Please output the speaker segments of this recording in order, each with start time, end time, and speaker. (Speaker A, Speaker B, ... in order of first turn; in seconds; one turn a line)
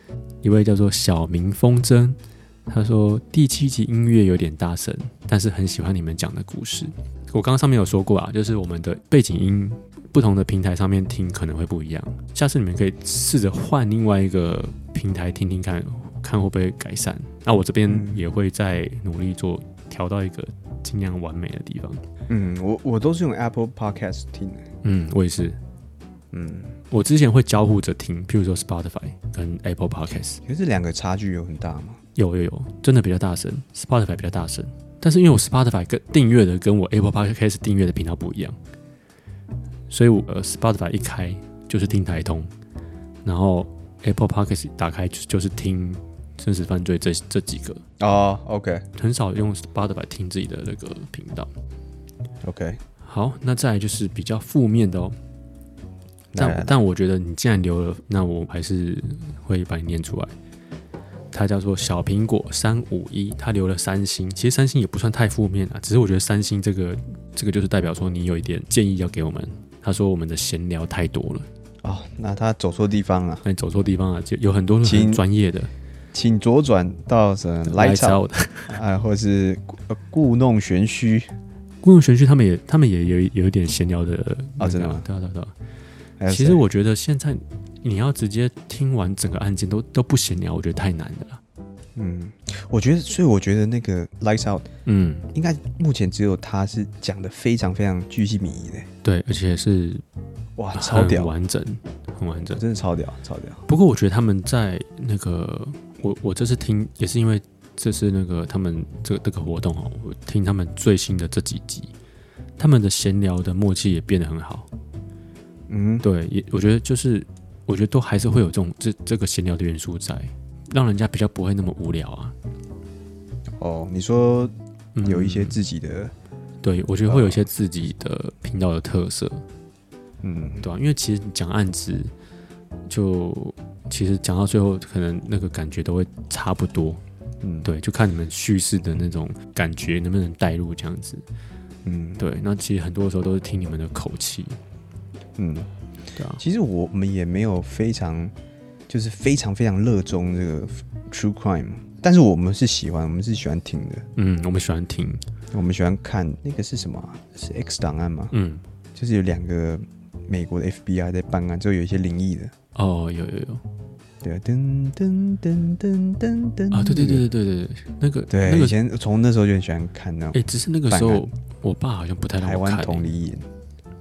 Speaker A: 0.4-22.0
Speaker B: 17.9-18.2
Speaker B: 22.3-24.6
Speaker A: 24.8-25.6
Speaker B: 26.3-26.8
Speaker A: 26.9-30.4
Speaker B: 30.4-32.0
Speaker A: 32.1-38.6
Speaker A: 39.9-42.5
Speaker A: 43.2-47.8
Speaker B: 48.0-48.9
Speaker A: 48.9-51.5
Speaker B: 52.4-52.8
Speaker A: 53.0-55.2
Speaker B: 56.3-56.7
Speaker A: 56.4-60.3
Speaker A: 61.3-71.5
Speaker B: 71.8-73.4
Speaker A: 73.4-75.7
Speaker B: 74.8-75.2
Speaker B: 76.1-81.3
Speaker A: 77.6-78.8
Speaker A: 81.8-85.5
Speaker B: 84.6-85.0
Speaker B: 86.2-86.6
Speaker A: 86.3-91.4
Speaker B: 92.0-94.7
Speaker A: 94.8-95.3
Speaker B: 95.3-98.9
Speaker A: 99.0-100.0
Speaker B: 100.6-101.3
Speaker A: 100.7-102.6
Speaker B: 102.5-103.6
Speaker A: 103.7-111.9
Speaker A: 112.6-114.7
Speaker B: 115.7-116.0
Speaker A: 116.0-122.3
Speaker B: 123.6-126.1
Speaker A: 124.9-125.6
Speaker A: 126.6-129.4
Speaker B: 127.0-127.4
Speaker B: 130.2-130.7
Speaker A: 130.6-132.1
Speaker A: 132.9-137.0
Speaker B: 137.4-137.7
Speaker A: 137.6-141.2
Speaker B: 141.8-142.2
Speaker A: 142.2-144.6
Speaker B: 145.4-145.7
Speaker A: 146.1-146.4
Speaker B: 146.4-148.3
Speaker B: 148.9-154.1
Speaker A: 154.2-155.2
Speaker B: 155.5-158.3
Speaker A: 158.3-158.6
Speaker B: 158.9-162.5
Speaker A: 162.7-163.6
Speaker B: 164.2-167.2
Speaker A: 166.7-168.8
Speaker B: 168.3-171.3
Speaker A: 170.3-173.1
Speaker B: 172.4-173.5